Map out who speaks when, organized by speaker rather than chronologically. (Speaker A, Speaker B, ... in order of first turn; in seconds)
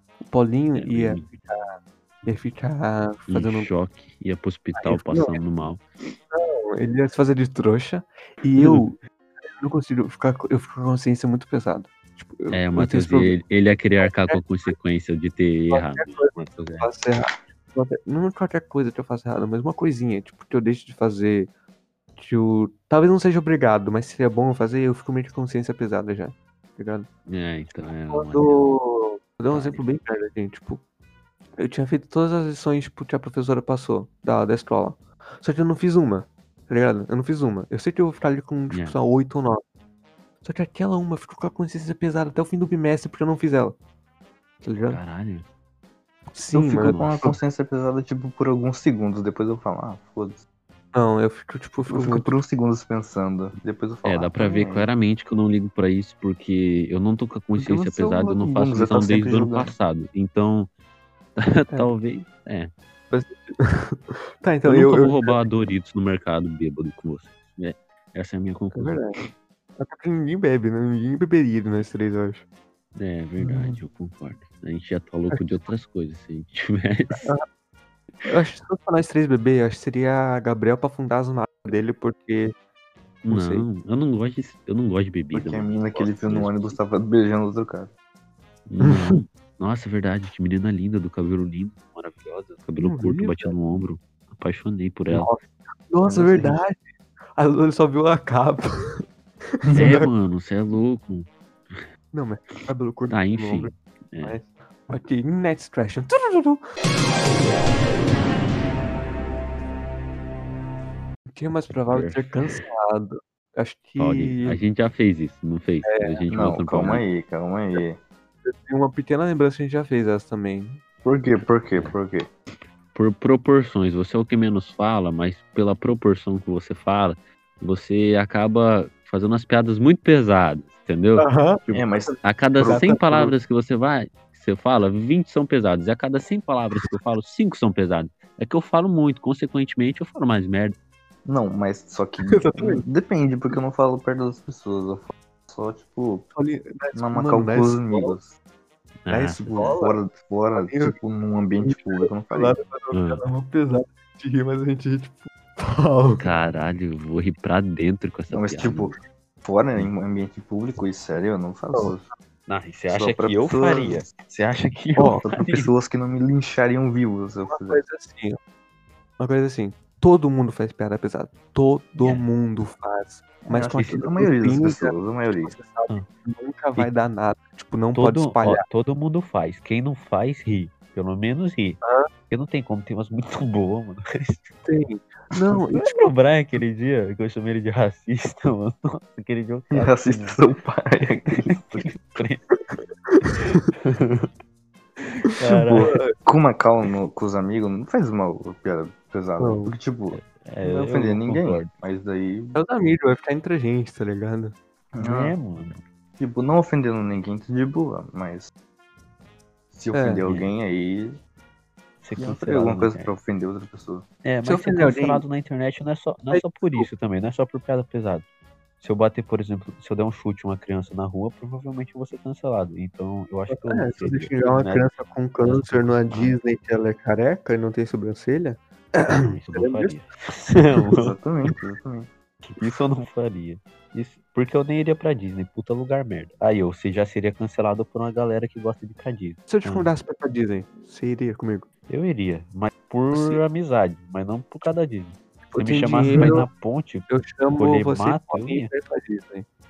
Speaker A: 0.2-3.7, 4.8-5.4, 6.3-9.0, 9.6-13.4, 14.0-14.7, 15.7-21.5, 22.2-27.1, 28.1-30.8, 31.6-39.6, 40.4-43.8, 44.6-45.0, 46.4-47.4, 50.9-52.3, 63.1-65.4, 68.7-69.2, 69.8-72.4, 73.4-73.8, 75.3-75.6, 77.2-77.4, 78.3-82.5, 83.3-83.7, 88.8-89.2, 92.8-93.6, 95.1-96.8, 97.4-100.1, 102.1-106.6, 111.3-114.6, 115.9-116.3, 118.5-120.8, 131.2-133.3, 142.3-142.8, 146.3-148.2, 149.1-150.0, 150.6-151.0, 151.6-156.4, 161.7-162.1, 165.0-165.2, 167.5-168.4, 169.2-178.6, 181.8-182.1, 184.7-186.1, 193.1-193.7, 195.8-196.1, 199.4-199.7, 202.6-204.5, 209.9-210.2, 214.4-215.2, 216.3-216.9, 223.5-229.9, 239.5-241.7, 243.1-243.4, 245.5-246.5, 247.1-249.5
Speaker B: 0.8-1.3, 3.3-5.8, 8.6-8.8, 12.5-16.9, 27.3-28.7, 29.5-29.8, 38.7-39.0, 44.9-45.5, 54.0-60.7, 61.4-62.7, 64.7-69.0, 73.0-77.3, 83.2-86.8, 88.7-95.3, 99.7-101.9, 103.1-104.4, 111.7-112.6, 114.0-117.0, 121.3-122.0, 122.9-140.8, 149.1-149.7, 152.9-153.2, 156.2-159.0, 162.5-165.7, 172.0-172.3, 177.9-184.5, 185.7-190.4, 191.3-192.4, 193.2-194.3, 195.0-195.9, 200.1-201.7, 205.0-205.8, 210.2-210.5, 212.0-213.1, 214.2-218.3, 218.8-224.9, 225.4-226.4, 229.1-231.2, 232.6-239.9, 241.9-248.7
Speaker C: 46.5-50.4, 51.9-54.9, 57.6-59.7, 85.3-87.9, 96.1-96.6, 116.3-118.0, 121.0-122.3, 131.7-132.8, 141.2-146.3, 146.9-148.3, 149.2-152.6, 158.3-162.0, 162.9-164.1, 165.2-167.8, 173.4-175.5, 189.7-192.0, 195.5-202.6, 204.9-205.4, 206.2-208.5, 209.7-211.2, 212.2-214.1, 231.0-232.1